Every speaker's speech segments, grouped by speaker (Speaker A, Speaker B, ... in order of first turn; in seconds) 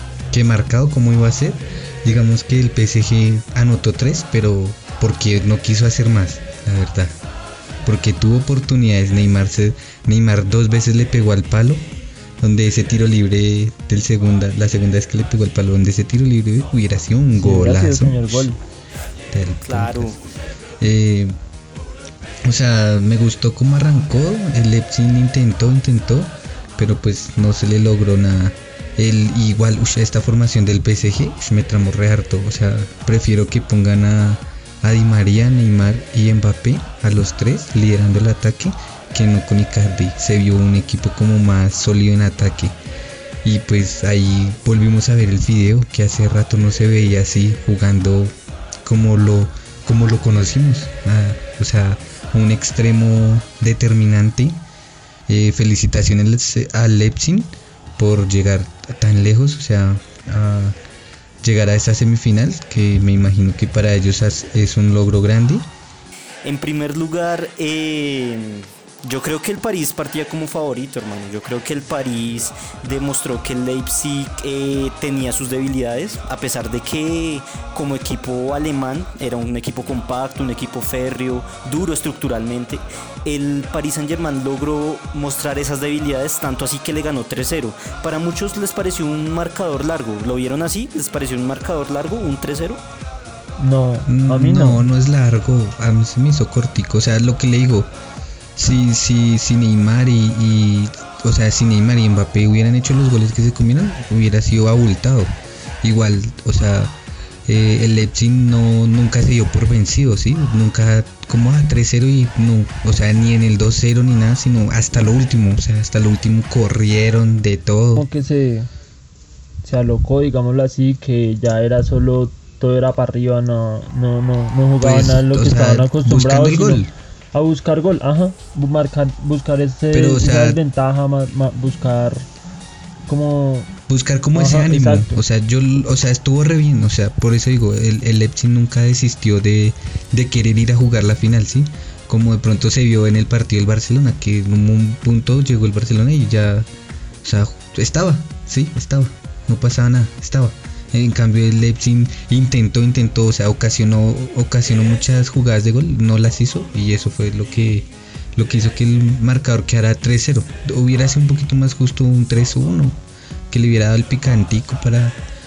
Speaker A: 0.3-7.2, 7.8-11.8, 12.4-18.5, 19.3-20.2, 20.8-21.4, 22.5-42.8, 43.4-54.6, 55.3-60.8, 61.4-65.7, 94.1-97.9, 98.6-107.0, 107.5-118.1, 124.8-126.9, 129.9-130.6, 133.9-146.7, 147.2-165.2
Speaker B: 17.4-18.6, 93.6-94.9, 118.0-118.7, 119.6-132.3, 133.1-133.7, 134.3-135.2
Speaker C: 19.6-20.2, 66.4-92.8